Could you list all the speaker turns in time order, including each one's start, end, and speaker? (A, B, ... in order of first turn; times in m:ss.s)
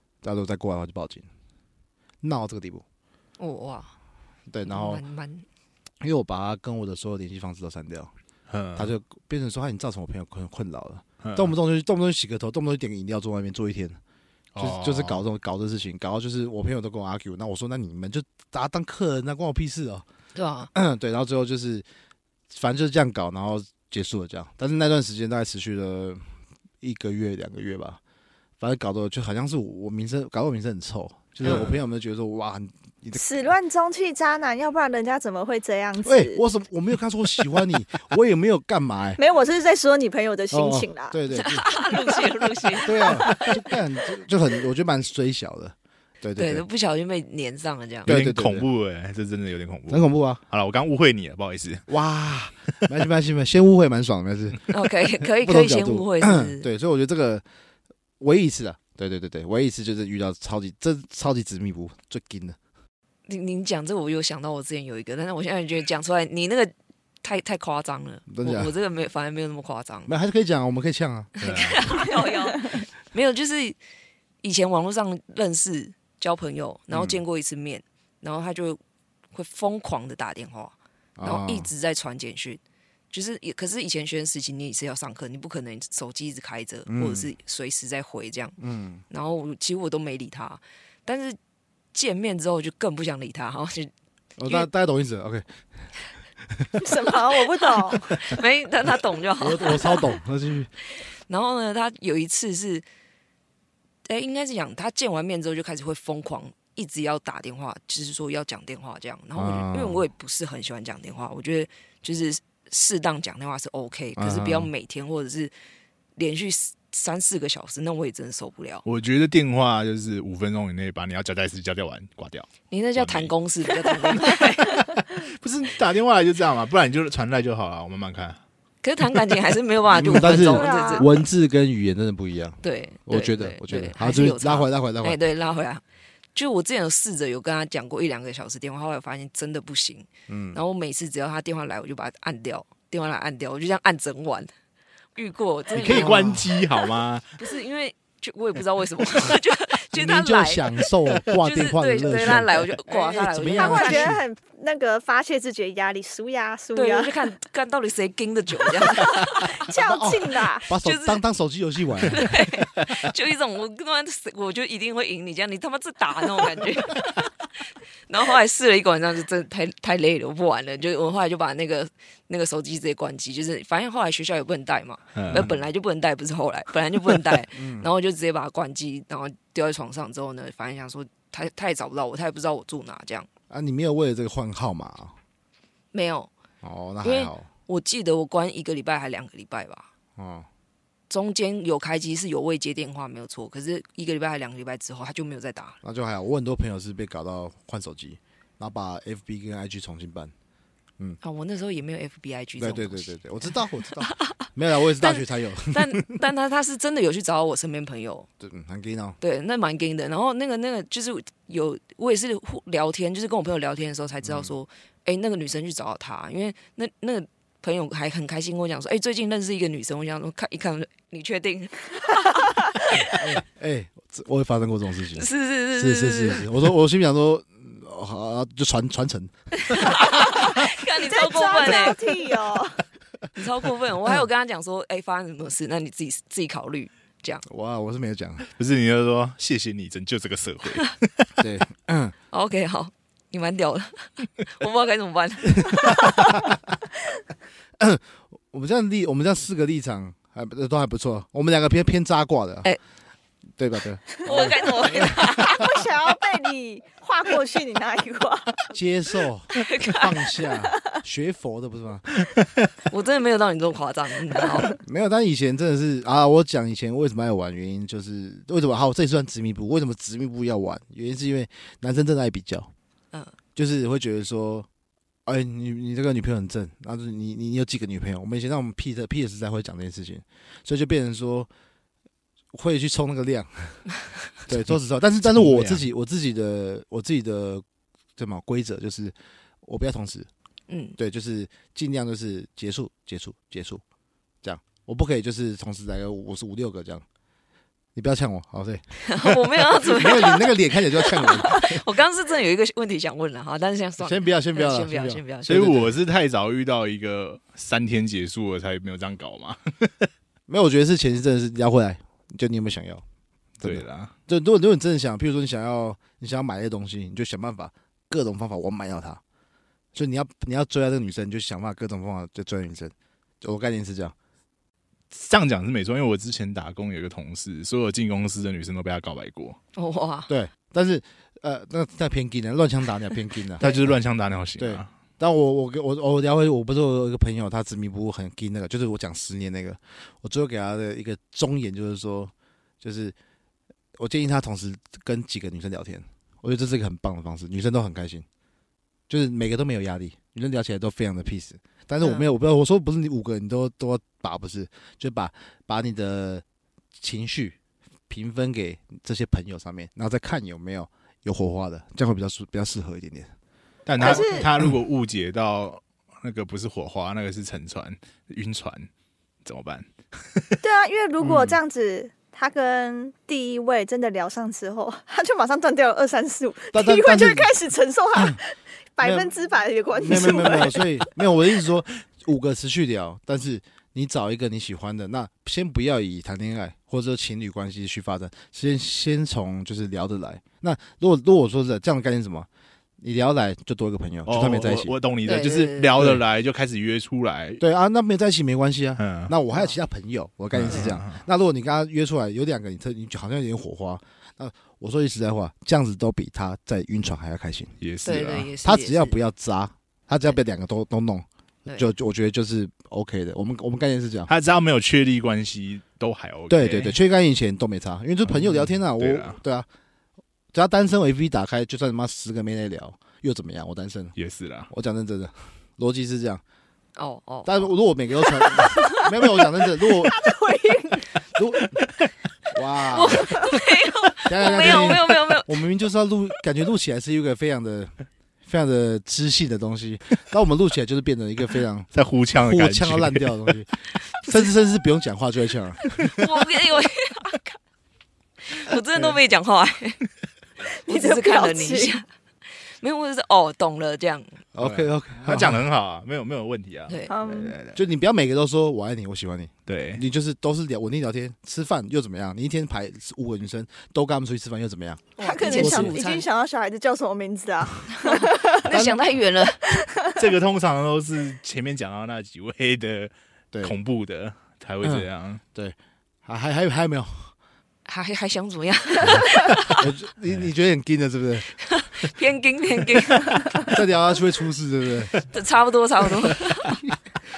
0:00.2-0:01.3 A
0:02.2-0:02.8 A
0:03.4-0:03.9 B
0:04.5-0:05.0 A
0:04.7-0:05.5 B
0:06.0-0:08.1 A
0:08.5-0:08.9 C
0:08.8-0:14.0 A
0:11.2-0:11.5 C
0:14.6-0:15.2 C
0:14.6-0:20.0 A
0:20.4-0:20.7 B
0:20.7-0:21.8 A
0:22.5-0:26.2 A
0:26.8-0:28.0 A
0:28.6-0:33.5 A
0:31.4-0:31.8 C
0:33.2-0:36.4 D
0:36.0-0:39.2 A
0:39.2-0:41.2 D
0:40.5-0:41.8 A
0:41.3-0:43.2 B
0:42.8-0:46.6 A
0:43.1-0:43.4 D
0:46.4-0:48.1 B
0:48.1-0:48.7 A
0:48.1-0:51.9 C
0:49.9-0:50.4 A
0:51.9-0:57.4 A
0:54.7-0:56.7 B
0:58.2-1:02.6 A
1:03.3-1:10.1 B
1:08.3-1:08.7 A
1:10.1-1:11.4 A
1:11.4-1:13.8 B
1:11.4-1:11.8 C
1:14.4-1:18.8 B
1:16.9-1:17.2 A
1:19.3-1:22.6 B
1:21.2-1:21.7 A
1:23.1-1:28.6 B
1:26.9-1:27.3 A
1:28.6-1:29.0 A
1:29.1-1:31.4 B
1:31.9-1:33.9 B
1:34.4-1:35.5 A
1:36.4-1:36.8 A
1:36.8-1:38.2 D
1:38.1-1:40.0 B
1:39.4-1:40.7 A
1:41.3-1:42.8 B
1:44.1-1:55.5 B
1:49.4-1:50.0 A
1:54.2-1:54.7 A
1:56.2-1:58.8 B
1:58.8-2:03.3 C
2:02.7-2:04.9 B
2:04.3-2:08.4 C
2:08.8-2:11.1 B
2:09.9-2:15.2 A
2:10.4-2:11.1 D
2:12.6-2:15.8 B
2:16.4-2:24.5 B
2:20.3-2:20.6 A
2:25.2-2:26.2 B
2:25.7-2:26.6 A
2:25.7-2:27.4 C
2:27.4-2:34.1 B
2:29.9-2:34.2 A
2:33.6-2:37.1 D
2:36.8-2:39.5 B
2:39.6-2:40.7 D
2:39.8-2:42.3 A
2:40.8-2:41.2 B
2:42.1-2:47.3 B
2:48.1-3:03.3 B
2:55.2-2:55.5 C
2:55.3-2:55.6 A
2:57.6-2:57.9 A
3:03.5-3:05.2 A
3:05.9-3:06.3 B
3:06.6-3:07.5 A
3:07.0-3:09.9 B
3:10.2-3:10.5 A
3:11.1-3:15.8 B
3:15.8-3:20.3 A
3:21.2-3:23.1 B
3:22.6-3:26.2 A
3:24.1-3:24.4 B
3:25.0-3:28.3 B
3:28.4-3:29.2 A
3:29.2-3:43.2 B
3:34.2-3:34.6 A
3:43.1-3:49.9 A
3:45.2-3:46.5 B
3:49.7-3:52.2 B
3:50.2-3:52.8 D
3:53.3-3:57.4 B
3:57.5-3:58.4 A
3:58.6-4:01.4 C
4:01.4-4:02.2 A
4:02.3-4:06.0 B
4:05.6-4:06.5 A
4:07.8-4:12.7 A
4:13.6-4:15.3 A
4:14.2-4:15.6 B
4:14.9-4:18.7 D
4:18.7-4:22.1 A
4:19.6-4:20.0 B
4:22.9-4:24.8 B
4:24.7-4:32.7 A
4:33.6-4:34.7 A
4:35.3-4:41.5 A
4:42.5-4:43.9 A
4:44.5-4:47.6 A
4:45.3-4:45.8 C
4:48.2-4:50.3 A
4:50.7-4:51.0 B
4:51.0-4:53.8 A
4:54.4-4:57.0 A
4:58.0-5:01.8 A
4:59.1-5:05.8 B
5:04.0-5:05.9 A
5:05.5-5:10.1 C
5:10.5-5:13.0 A
5:13.6-5:19.2 A
5:13.6-5:14.1 C
5:20.0-5:24.2 A
5:25.1-5:29.6 C
5:29.8-5:30.3 B
5:30.3-5:33.8 A
5:33.6-5:34.9 C
5:34.6-5:43.2 A
5:44.0-5:48.2 A
5:49.1-5:56.4 A
5:52.0-5:52.3 B
5:57.0-5:57.6 A
5:58.1-6:03.3 A
6:03.9-6:08.9 C
6:04.0-6:04.5 D
6:04.0-6:04.7 A
6:09.4-6:10.6 C
6:10.6-6:21.1 D
6:11.2-6:11.6 A
6:16.7-6:17.5 A
6:19.0-6:19.3 A
6:19.9-6:32.5 A
6:33.0-6:34.9 A
6:34.3-6:37.6 C
6:35.2-6:36.0 B
6:37.6-6:47.7 A
6:39.0-6:39.3 C
6:40.5-6:41.2 C
6:47.8-6:48.5 C
6:48.1-6:49.2 B
6:48.6-6:54.3 A
6:54.3-6:57.0 C
6:56.5-6:59.7 A
6:58.3-6:59.4 C
7:00.5-7:04.1 A
7:04.2-7:04.7 C
7:04.7-7:06.4 A
7:07.0-7:07.7 B
7:07.4-7:10.2 A
7:09.9-7:11.2 D
7:11.4-7:11.8 A
7:12.5-7:13.4 A
7:12.9-7:15.6 B
7:14.2-7:17.9 A
7:18.4-7:21.9 A
7:21.9-7:23.5 C
7:22.4-7:25.9 A
7:26.2-7:27.6 B
7:28.5-7:30.0 B
7:30.7-7:32.0 D
7:30.9-7:32.1 B
7:32.8-7:34.4 B
7:34.6-7:35.6 A
7:34.6-7:37.8 C
7:36.9-7:37.3 B
7:37.1-7:37.6 D
7:37.7-7:45.9 A
7:39.7-7:40.0 C
7:45.2-7:46.3 B
7:45.2-7:48.8 D
7:48.0-7:49.7 B
7:48.7-7:49.0 A
7:49.7-7:50.2 D
7:50.2-7:55.4 C
7:54.8-7:57.3 A
7:57.9-7:59.8 B
7:59.8-8:01.5 A
8:01.6-8:03.4 B
8:03.7-8:05.1 A
8:05.3-8:06.8 B